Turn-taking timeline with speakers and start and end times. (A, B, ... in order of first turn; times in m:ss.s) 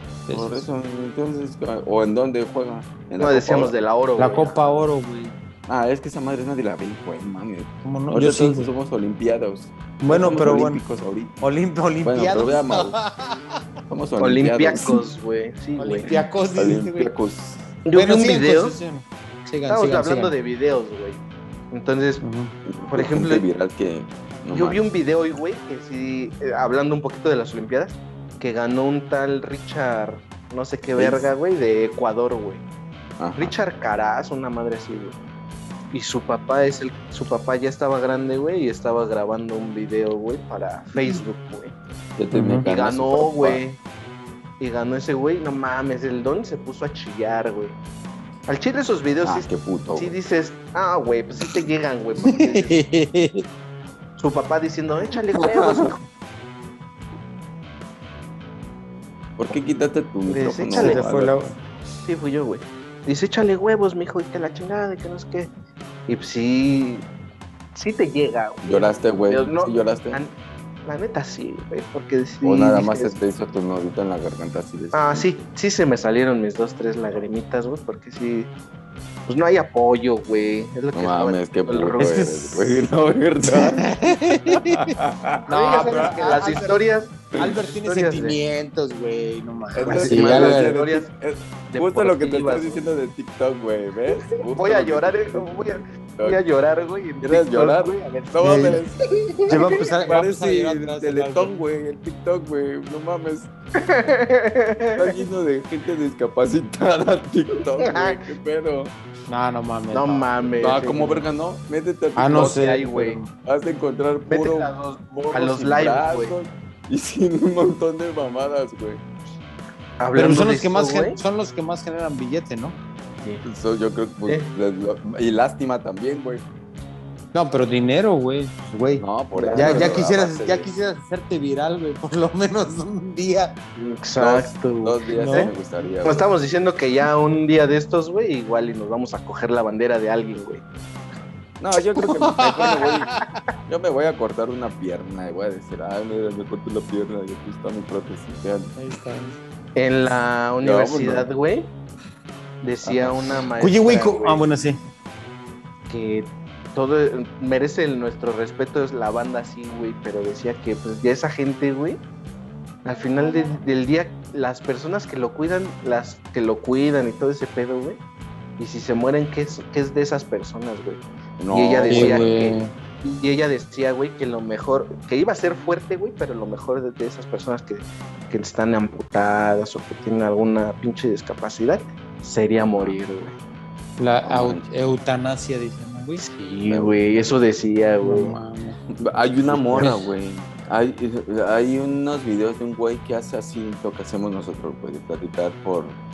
0:00.3-0:00.7 A
0:00.3-0:03.7 B
0:03.2-0:04.8 C
0:04.2-0:05.3 A
0:05.7-0:11.4 B
0:07.8-0:08.7 A
0:10.0-0:10.8 A
0:11.4-0:13.6 A
0:12.0-0:13.0 B
0:13.9-0:14.9 B
0:14.2-0:16.1 C
0:15.8-0:17.1 A
0:16.1-0:17.8 B
0:17.8-0:18.7 C
0:17.9-0:20.3 A
0:19.7-0:21.2 C
0:21.7-0:22.2 C
0:22.2-0:22.5 A
0:22.6-0:24.8 B
0:22.9-0:23.4 C
0:24.5-0:32.6 C
0:31.0-0:31.3 B
0:33.2-0:33.5 B
0:33.4-0:35.2 C
0:35.9-0:41.8 C
0:42.2-0:43.6 B
0:42.3-0:42.6 A
0:42.6-0:43.8 C
0:44.6-0:47.8 C
0:48.5-0:52.8 C
0:49.2-0:50.2 B
0:52.2-0:53.4 A
0:54.2-0:56.0 C
0:55.4-0:55.9 B
0:59.4-1:01.4 B
1:00.3-1:01.0 C
1:00.7-1:01.5 A
1:02.0-1:05.5 C
1:06.1-1:07.0 C
1:07.7-1:13.1 C
1:08.6-1:10.2 B
1:12.4-1:15.5 B
1:14.9-1:18.5 C
1:19.3-1:22.2 C
1:20.9-1:26.4 B
1:22.0-1:22.7 A
1:23.5-1:24.9 A
1:25.5-1:26.8 A
1:25.5-1:28.4 C
1:27.4-1:30.8 A
1:29.7-1:36.4 B
1:29.8-1:31.1 C
1:31.7-1:32.8 C
1:34.5-1:39.8 C
1:37.2-1:43.5 B
1:38.4-1:38.8 A
1:39.5-1:41.5 A
1:43.8-1:45.1 C
1:45.0-1:48.9 B
1:47.8-1:48.2 C
1:49.3-1:51.2 A
1:49.9-1:51.2 C
1:50.6-1:59.0 B
1:52.2-1:53.3 A
1:52.3-1:53.2 C
1:54.3-1:56.3 C
2:00.0-2:01.2 C
2:00.1-2:02.8 A
2:03.4-2:06.4 B
2:07.3-2:13.5 A
2:09.0-2:10.7 B
2:09.3-2:10.0 C
2:13.8-2:15.5 C
2:14.2-2:16.3 B
2:15.2-2:15.5 A
2:16.0-2:20.6 C
2:21.6-2:28.8 B
2:22.0-2:23.2 A
2:28.8-2:29.4 A
2:29.8-2:31.7 C
2:30.6-2:31.3 B
2:32.6-2:34.4 C
2:32.8-2:33.3 B
2:33.6-2:34.8 A
2:35.9-2:42.0 C
2:42.8-2:48.0 C
2:48.6-3:03.3 C
2:51.4-2:52.4 B
2:51.9-2:52.7 A
3:02.6-3:03.0 B
3:04.0-3:06.2 A
3:04.2-3:04.7 B
3:06.2-3:08.3 C
3:06.7-3:07.3 B
3:08.0-3:08.8 A
3:09.0-3:16.0 B
3:09.5-3:10.0 A